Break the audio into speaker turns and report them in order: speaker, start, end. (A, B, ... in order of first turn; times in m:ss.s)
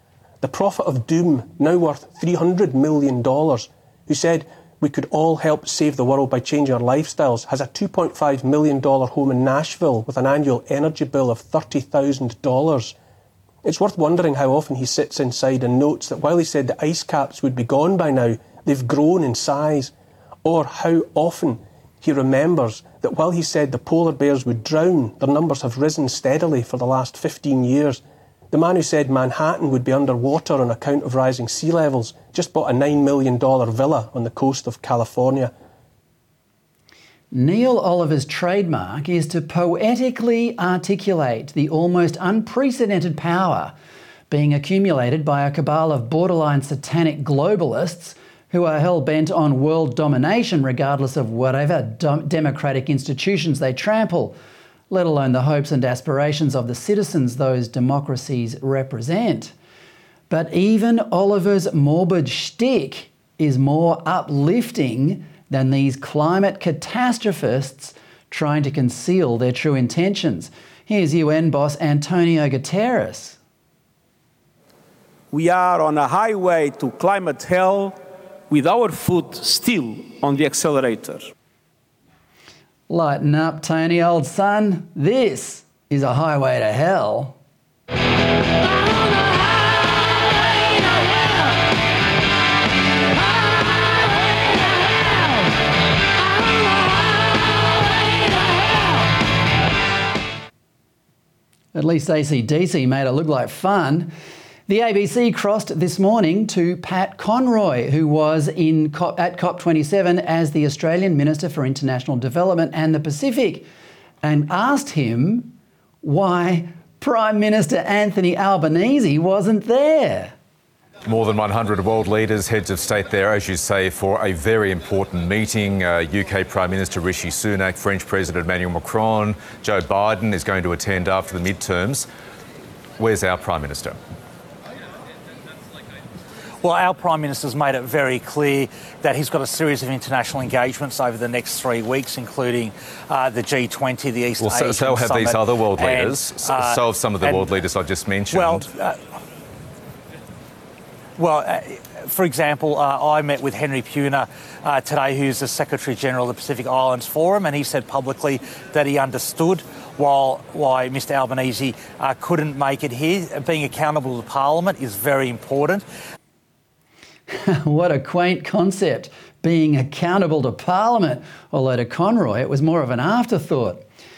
0:00.4-0:12.9 A
0:13.6-0:19.9 A
0:20.4-0:35.5 A
0:37.3-0:43.7 B
0:44.3-0:54.4 B
0:54.9-0:59.5 B
1:00.3-1:13.4 B
1:15.3-1:18.0 C
1:18.5-1:21.3 C
1:22.9-1:27.4 B
1:41.7-1:44.1 B
1:44.7-1:53.7 B
1:54.2-2:00.3 B
2:01.0-2:12.1 D
2:13.0-2:14.0 D
2:16.6-2:27.6 E
2:24.4-2:28.7 D
2:28.3-2:29.0 E
2:31.2-2:45.8 E
2:47.3-2:53.8 B